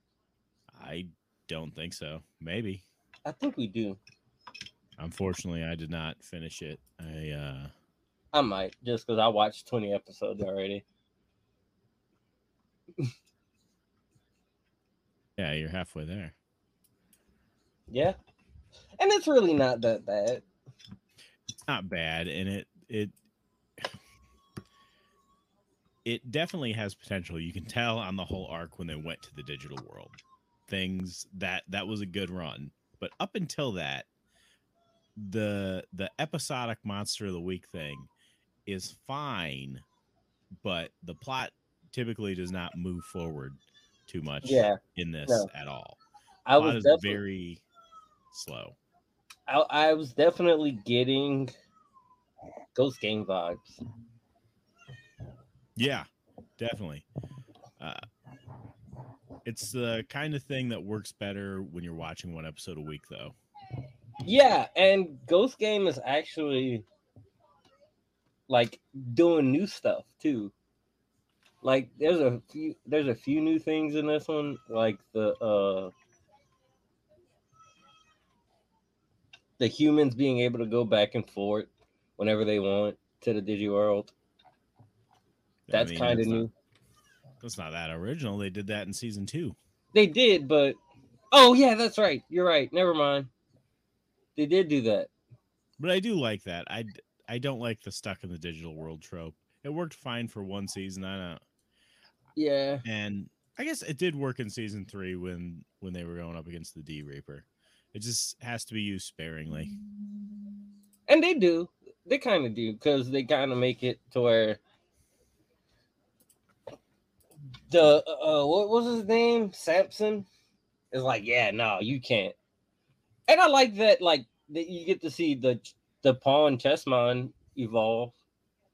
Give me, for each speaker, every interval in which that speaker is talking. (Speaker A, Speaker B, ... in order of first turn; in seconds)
Speaker A: 0.7-2.8, 5.0-7.7, 15.4-16.3, 21.7-23.1, 26.0-30.2, 30.7-34.1, 35.1-38.1, 38.6-39.8, 40.6-46.0, 46.5-47.6, 48.3-48.8, 55.8-57.1, 59.4-63.4, 85.7-86.5, 87.4-89.5, 95.8-101.4, 102.8-109.7
Speaker B: 3.2-4.0, 8.3-10.8, 17.9-18.1, 19.0-20.4, 44.4-45.5, 46.5-47.2, 49.5-51.5, 52.7-53.8, 64.2-66.8, 68.5-70.5, 71.6-75.9, 79.6-84.1, 85.7-86.5, 89.9-90.8, 91.3-93.3, 94.3-95.1, 102.3-102.8, 111.1-114.6, 117.7-120.3, 120.9-122.3, 123.3-128.1